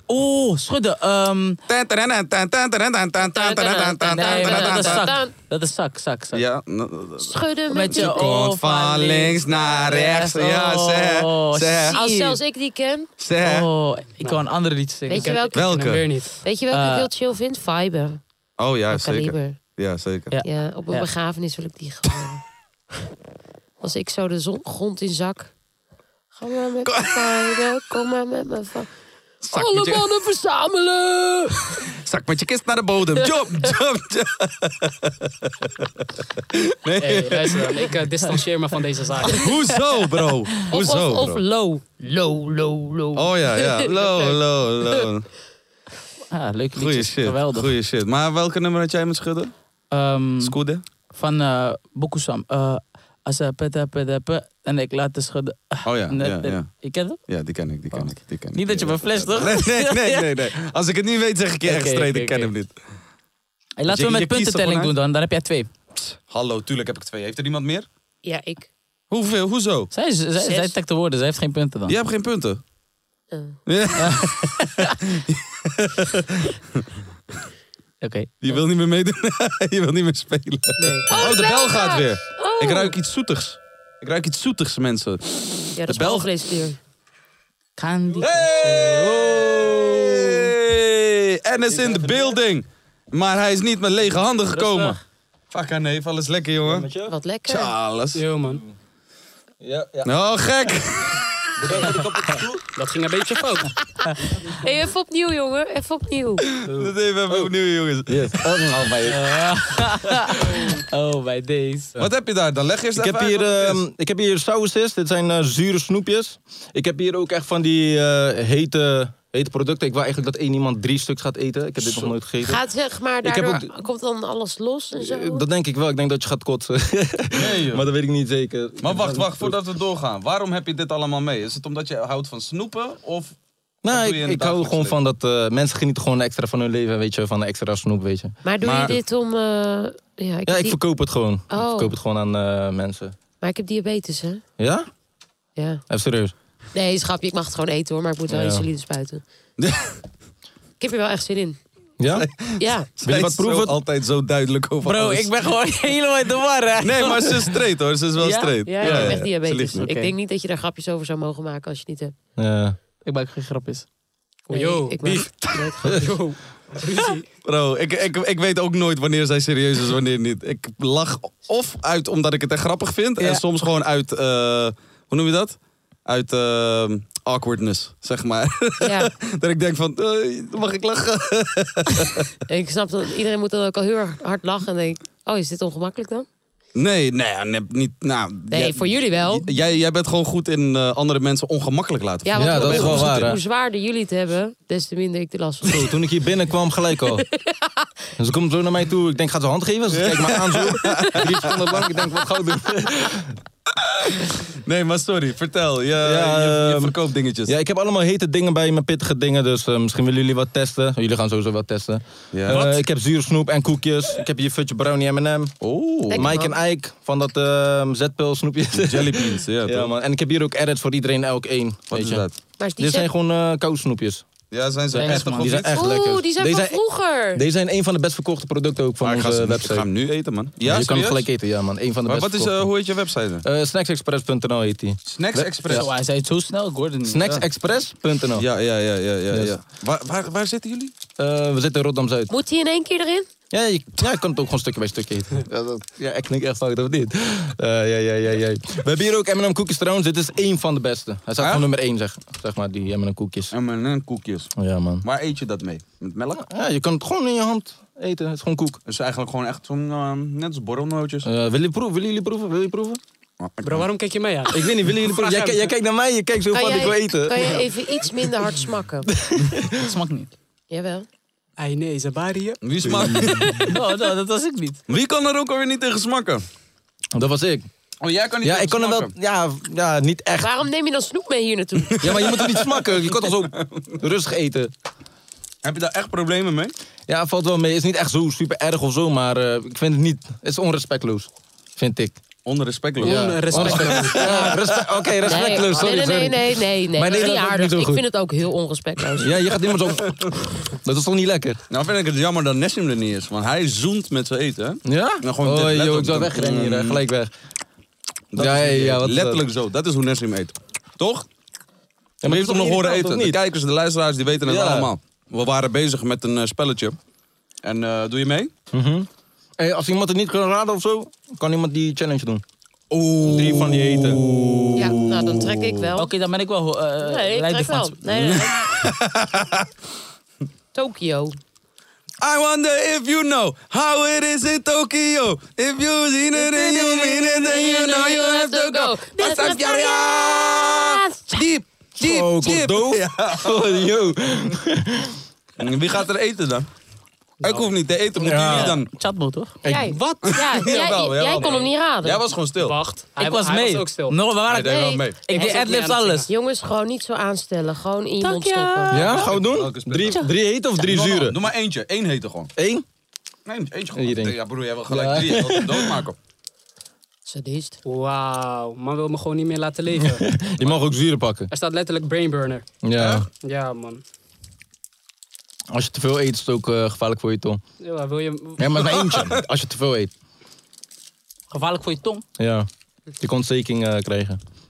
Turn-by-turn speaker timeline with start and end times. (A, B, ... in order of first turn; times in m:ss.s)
0:00.1-0:01.6 A
0:01.7-0:05.1 B
0:03.3-0:05.3 C
0:04.2-0:06.4 A
0:06.3-0:07.4 B
0:07.2-0:08.3 C
0:07.7-0:12.4 A
0:07.9-0:12.0 B
0:11.9-0:13.1 C
0:13.2-0:13.7 B
0:13.4-0:15.4 A
0:14.2-0:14.5 D
0:15.1-0:15.9 C
0:15.1-0:16.4 D
0:15.5-0:16.1 B
0:16.4-0:18.2 C
0:16.7-0:17.1 A
0:18.6-0:20.3 B
0:18.9-0:19.6 C
0:20.3-0:21.1 A
0:20.4-0:22.5 C
0:23.8-0:25.6 C
0:26.3-0:31.9 C
0:26.8-0:27.7 B
0:29.4-0:30.1 B
0:31.9-0:37.8 B
0:37.0-0:39.5 D
0:39.3-0:41.4 B
0:40.7-0:45.0 C
0:43.2-0:45.3 B
0:46.3-0:47.7 A
0:46.8-0:49.5 B
0:49.9-0:50.6 A
0:50.4-0:50.8 B
0:51.1-0:57.2 A
0:55.8-1:02.8 B
0:57.9-1:00.3 A
1:01.7-1:02.5 A
1:03.8-1:05.7 A
1:03.9-1:04.9 B
1:06.0-1:07.9 B
1:08.2-1:08.7 C
1:09.1-1:09.9 B
1:09.9-1:12.0 A
1:10.4-1:10.8 C
1:11.9-1:12.6 B
1:13.3-1:13.6 C
1:13.7-1:17.0 B
1:14.0-1:15.0 A
1:18.0-1:18.6 A
1:18.4-1:26.3 B
1:20.8-1:23.0 C
1:25.8-1:26.8 C
1:27.8-1:28.9 A
1:28.2-1:30.3 E
1:28.3-1:35.0 B
1:31.7-1:32.4 E
1:34.5-1:35.0 A
1:35.5-1:36.9 B
1:36.6-1:37.1 E
1:37.1-1:37.7 C
1:37.5-1:38.2 B
1:38.1-1:38.6 D
1:38.5-1:38.7 E
1:39.6-1:40.2 E
1:40.0-1:41.2 B
1:41.6-1:42.7 E
1:42.8-1:43.7 D
1:44.5-1:46.5 C
1:46.6-1:47.5 E
1:46.7-1:48.6 B
1:48.1-1:49.2 E
1:49.1-1:51.9 A
1:52.0-1:53.8 B
1:53.0-2:02.6 E
2:02.4-2:05.5 C
2:03.2-2:03.7 E
2:05.0-2:09.6 E
2:07.4-2:07.9 B
2:08.8-2:15.0 B
2:13.8-2:18.4 E
2:18.4-2:20.8 C
2:18.6-2:19.0 B
2:20.5-2:23.2 E
2:21.5-2:22.0 C
2:23.4-2:24.4 C
2:24.6-2:24.9 E
2:25.6-2:25.8 C
2:25.9-2:26.3 E
2:26.7-2:29.2 C
2:28.3-2:28.7 E
2:29.6-2:30.0 B
2:30.8-2:31.6 C
2:32.0-2:32.3 E
2:32.1-2:35.3 B
2:32.6-2:32.9 C
2:33.0-2:33.8 E
2:34.8-2:37.6 A
2:36.8-2:39.9 B
2:38.2-2:40.1 A
2:38.7-2:42.1 C
2:42.4-2:42.8 E
2:43.0-2:43.9 A
2:44.5-2:47.3 D
2:44.5-2:46.0 C
2:47.4-3:02.3 B
2:58.8-2:59.1 C
3:02.5-3:06.3 C
3:06.8-3:13.2 B
3:08.5-3:09.5 C
3:12.2-3:16.0 C
3:12.4-3:13.4 E
3:15.6-3:17.2 E
3:17.1-3:17.9 C
3:18.2-3:23.3 E
3:19.9-3:21.6 B
3:20.8-3:21.2 C
3:23.8-3:27.6 B
3:26.0-3:42.3 E
3:32.3-3:32.8 B
3:35.6-3:36.3 B
3:36.1-3:36.6 C
3:38.8-3:39.9 B
3:41.9-3:42.3 B
3:42.6-3:43.1 C
3:42.8-3:44.3 E
3:44.5-3:45.7 B
3:44.9-3:45.6 A
3:45.0-3:46.8 E
3:45.7-3:47.4 C
3:47.3-3:49.9 E
3:49.0-3:51.3 B
3:50.6-3:52.7 E
3:52.1-3:53.4 B
3:53.4-3:55.9 E
3:55.1-3:55.9 B
3:55.7-3:57.3 A
3:57.0-3:58.5 E
3:58.4-4:01.0 B
3:59.3-3:59.6 E
4:01.2-4:02.3 E
4:02.3-4:03.3 C
4:03.5-4:13.5 E
4:11.4-4:11.7 B
4:13.5-4:14.5 B
4:14.6-4:15.1 E
4:15.0-4:16.4 B
4:16.3-4:18.8 E
4:18.9-4:21.3 B
4:21.2-4:23.0 E
4:23.4-4:23.9 B
4:23.6-4:25.7 D
4:24.5-4:27.6 E
4:26.5-4:29.1 C
4:29.2-4:29.9 E
4:29.6-4:30.3 A
4:30.7-4:31.1 C
4:31.6-4:32.6 D
4:32.6-4:33.6 B
4:32.8-4:33.4 E
4:33.3-4:33.7 C
4:33.7-4:34.8 A
4:34.9-4:36.4 B
4:37.2-4:37.7 E
4:38.0-4:39.1 B
4:38.4-4:40.6 E
4:40.4-4:42.2 C
4:42.0-4:44.0 B
4:42.0-4:44.7 E
4:45.6-4:46.7 B
4:47.1-4:52.2 E
4:52.4-4:54.7 B
4:53.0-4:58.0 E
4:53.0-4:54.5 D
4:55.2-4:59.5 C
4:59.2-5:01.6 E
5:01.7-5:07.0 B
5:04.8-5:07.3 E
5:08.3-5:11.3 B
5:08.4-5:09.4 E
5:12.2-5:13.4 E
5:12.2-5:17.0 B
5:14.4-5:14.9 E
5:17.6-5:18.5 B
5:18.7-5:19.1 E
5:19.6-5:25.4 E
5:23.2-5:24.2 B
5:24.8-5:26.1 C
5:26.0-5:28.4 A
5:27.0-5:28.7 C
5:28.3-5:29.7 B
5:30.7-5:31.4 C
5:32.2-5:43.8 B
5:36.5-5:37.1 E
5:37.2-5:41.4 C
5:42.0-5:45.2 E
5:45.6-5:46.7 B
5:47.4-5:47.7 D
5:47.4-5:48.9 B
5:48.2-5:48.8 E
5:48.3-5:49.6 A
5:49.6-5:50.0 E
5:49.7-5:52.2 C
5:49.9-5:50.7 D
5:50.3-5:52.8 B
5:51.4-5:51.7 D
5:52.6-5:54.2 D
5:53.2-5:56.3 A
5:54.5-5:55.2 B
5:54.6-5:55.0 C
5:55.3-5:56.3 D
5:56.3-5:59.0 C
5:58.2-5:59.3 A
5:58.9-6:01.4 E
5:59.1-6:00.2 B
6:00.8-6:02.5 B
6:02.6-6:02.8 E
6:03.5-6:06.2 B
6:03.9-6:06.0 E
6:07.3-6:07.8 C
6:07.8-6:10.3 D
6:10.0-6:11.5 E
6:11.5-6:12.7 D
6:12.8-6:13.3 E
6:13.0-6:13.3 B
6:13.4-6:14.0 D
6:15.7-6:17.6 E
6:17.8-6:18.8 D
6:18.6-6:20.1 E
6:18.9-6:19.4 B
6:21.5-6:22.2 A
6:22.4-6:22.7 E
6:23.2-6:24.4 E